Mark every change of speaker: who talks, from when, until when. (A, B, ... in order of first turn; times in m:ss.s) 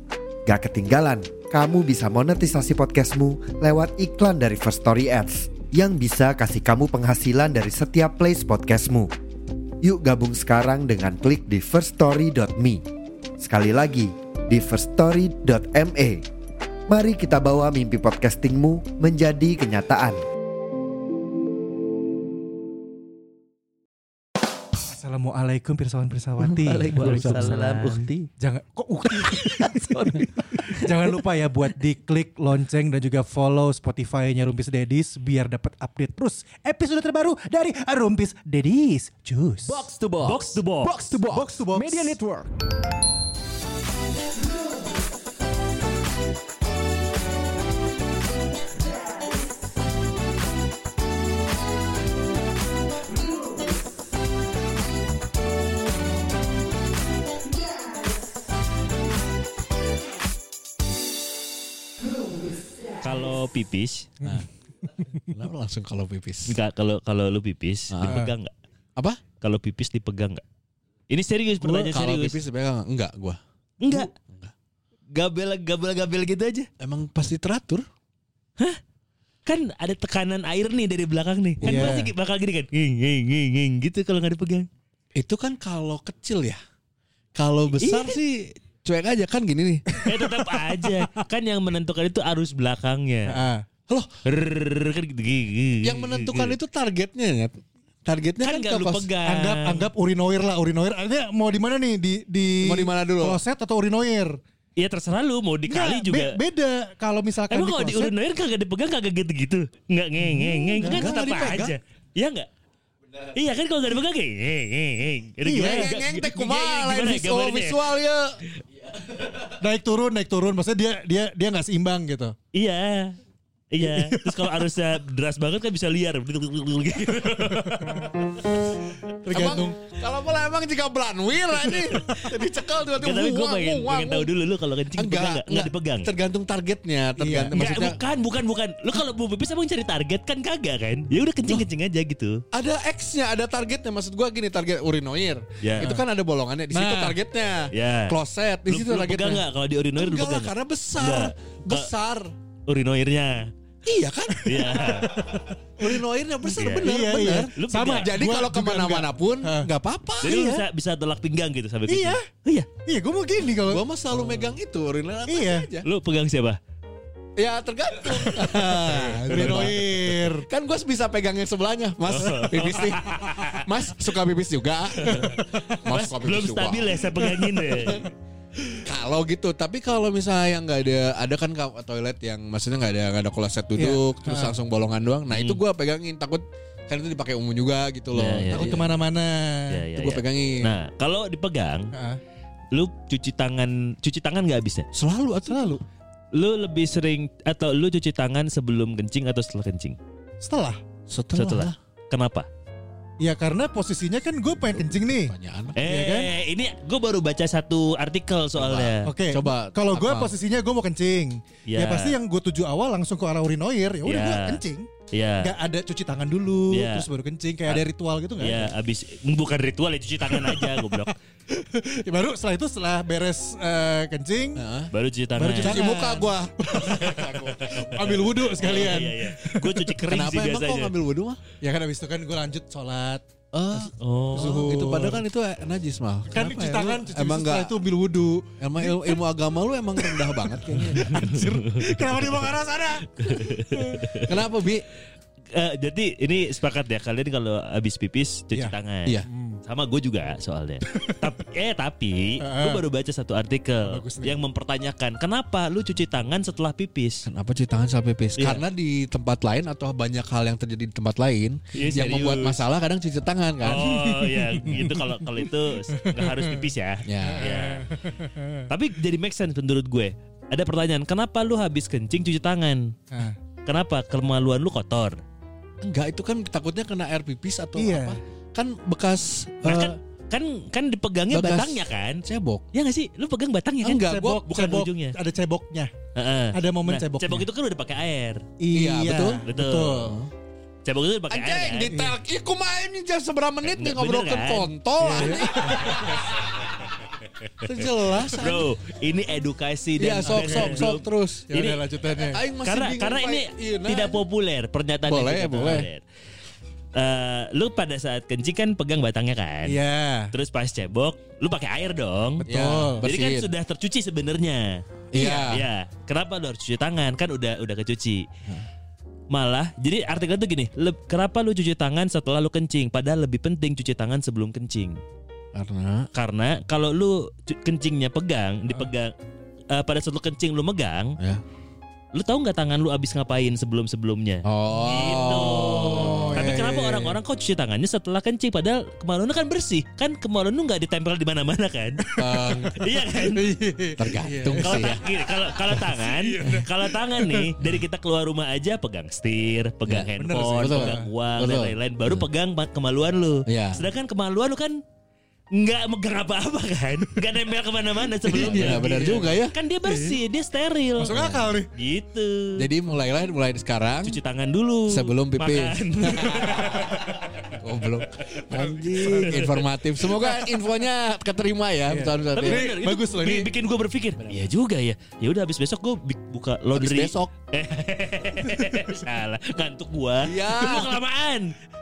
0:00.4-0:09.1 A
0:09.8-0:12.8 A
0:13.4-0:16.2 A
0:16.9-0:20.2 A
0:24.8-0:39.8 B
0:26.7-0:28.2 C
0:27.0-0:27.5 D
0:29.5-0:29.8 C
0:39.7-0:42.5 E
0:40.2-0:41.0 C
0:40.8-0:41.4 D
0:41.2-0:42.2 B
0:42.0-0:42.4 D
1:03.0-1:04.1 C
1:05.3-1:06.6 D
1:06.5-1:08.5 C
1:07.9-1:08.2 D
1:09.4-1:10.4 C
1:11.1-1:12.4 C
1:11.6-1:13.4 D
1:13.8-1:14.1 C
1:13.9-1:14.5 D
1:15.1-1:16.7 C
1:16.8-1:17.8 D
1:19.4-1:24.7 C
1:21.6-1:22.1 B
1:21.6-1:22.0 D
1:25.1-1:26.6 D
1:27.4-1:29.8 D
1:27.8-1:28.2 C
1:30.0-1:33.4 C
1:30.1-1:31.0 B
1:33.3-1:33.6 B
1:34.2-1:36.6 C
1:35.8-1:39.1 D
1:38.4-1:39.9 C
1:39.2-1:44.4 B
1:42.6-1:43.4 D
1:44.8-1:46.4 C
1:45.7-1:48.1 B
1:47.5-1:52.5 C
1:50.4-1:51.2 B
1:50.8-1:51.7 D
1:53.3-1:57.9 C
1:55.4-1:55.9 B
1:55.6-1:58.4 D
1:59.6-2:02.3 B
2:02.5-2:03.2 C
2:03.7-2:08.0 C
2:03.8-2:04.4 B
2:09.2-2:09.8 B
2:09.2-2:14.3 D
2:13.0-2:16.1 C
2:15.0-2:18.0 D
2:17.2-2:17.5 B
2:17.5-2:22.4 C
2:22.5-2:29.4 D
2:25.6-2:25.9 C
2:26.7-2:27.2 B
2:27.7-2:28.2 C
2:28.7-2:31.9 C
2:30.0-2:32.3 D
2:32.7-2:33.5 C
2:33.8-2:34.9 D
2:34.4-2:39.7 B
2:34.4-2:35.2 C
2:35.8-2:40.4 D
2:36.6-2:36.9 C
2:37.6-2:38.1 C
2:40.2-2:42.7 C
2:40.2-2:40.6 B
2:41.9-2:42.2 B
2:42.8-2:43.8 B
2:43.6-2:45.8 D
2:45.3-2:45.7 B
2:45.8-2:46.6 C
2:47.4-2:57.0 D
2:48.3-2:50.5 B
2:49.3-2:49.8 C
2:52.1-2:53.6 C
2:52.2-2:53.2 B
2:55.0-2:58.1 C
2:55.1-2:55.7 B
2:58.8-3:09.0 D
3:03.8-3:04.5 B
3:05.3-3:05.6 C
3:08.1-3:08.8 C
3:08.5-3:09.8 B
3:09.7-3:11.9 C
3:10.0-3:10.7 D
3:11.9-3:12.2 B
3:12.7-3:14.8 C
3:14.9-3:15.8 D
3:15.5-3:15.8 B
3:16.3-3:20.0 C
3:20.4-3:20.8 B
3:21.1-3:21.8 D
3:21.4-3:22.5 C
3:23.2-3:26.3 B
3:24.7-3:25.8 D
3:25.8-3:29.1 C
3:28.6-3:30.3 D
3:29.0-3:34.9 B
3:31.7-3:32.1 C
3:34.0-3:34.6 C
3:35.1-3:35.5 C
3:35.4-3:38.7 B
3:36.7-3:37.0 C
3:38.4-3:41.1 C
3:40.3-3:44.6 B
3:44.6-3:44.9 D
3:44.9-3:45.9 C
3:45.4-3:49.9 B
3:45.6-3:48.2 D
3:47.6-3:47.9 C
3:48.4-3:50.9 C
3:50.1-3:51.4 D
3:51.6-3:53.2 B
3:53.5-3:57.7 D
3:54.0-3:54.7 C
3:54.3-3:55.2 B
3:56.3-3:59.2 B
3:58.6-4:01.5 D
4:00.0-4:04.2 B
4:01.1-4:01.7 C
4:03.2-4:04.2 C
4:04.2-4:04.8 D
4:05.5-4:17.2 C
4:09.3-4:09.6 B
4:10.9-4:11.3 B
4:12.4-4:12.8 B
4:13.8-4:14.4 B
4:17.3-4:23.9 D
4:18.4-4:18.6 C
4:21.7-4:22.6 C
4:23.6-4:27.8 C
4:23.6-4:26.6 B
4:27.0-4:27.5 D
4:27.2-4:28.6 B
4:28.7-4:32.9 C
4:33.1-4:33.4 B
4:33.6-4:35.2 C
4:35.8-4:39.9 D
4:37.8-4:38.2 B
4:39.6-4:42.2 C
4:41.3-4:42.6 D
4:42.7-4:45.2 C
4:43.8-4:45.9 B
4:46.1-4:48.4 C
4:46.5-4:47.4 B
4:48.6-4:50.2 B
4:48.7-4:49.4 D
4:49.4-4:50.1 C
4:50.8-4:51.9 C
4:51.3-4:56.6 D
4:51.9-4:52.2 B
4:53.6-4:54.7 C
4:55.0-4:56.2 B
4:55.6-4:56.0 C
4:57.6-4:58.7 D
4:58.3-5:01.8 C
5:00.0-5:01.5 D
5:00.3-5:00.9 B
5:01.5-5:02.4 B
5:02.2-5:04.2 D
5:02.6-5:06.0 C
5:05.1-5:05.9 D
5:06.9-5:09.8 C
5:09.6-5:10.3 B
5:10.3-5:12.4 C
5:12.4-5:13.0 B
5:12.4-5:13.5 D
5:13.0-5:18.3 C
5:15.1-5:15.6 D
5:19.3-5:25.0 C
5:25.5-5:26.1 D
5:26.1-5:29.1 C
5:29.7-5:31.2 C
5:32.1-5:42.0 C
5:34.4-5:36.6 D
5:35.7-5:37.2 B
5:42.0-5:47.5 B
5:42.2-5:42.8 D
5:42.7-5:43.4 C
5:44.0-5:45.0 D
5:44.6-5:54.8 C
5:49.8-5:52.2 D
5:50.2-5:51.0 B
5:53.5-5:53.8 D
5:55.5-6:01.2 C
5:58.3-5:59.5 D
5:58.3-6:00.2 B
6:01.0-6:01.7 B
6:01.1-6:01.5 D
6:01.7-6:02.6 C
6:02.6-6:04.2 D
6:04.0-6:06.9 C
6:04.9-6:06.8 D
6:06.6-6:07.2 B
6:07.5-6:12.7 D
6:08.4-6:09.5 C
6:08.5-6:10.5 B
6:11.9-6:13.5 B
6:12.3-6:21.5 C
6:16.7-6:17.3 D
6:20.2-6:20.9 D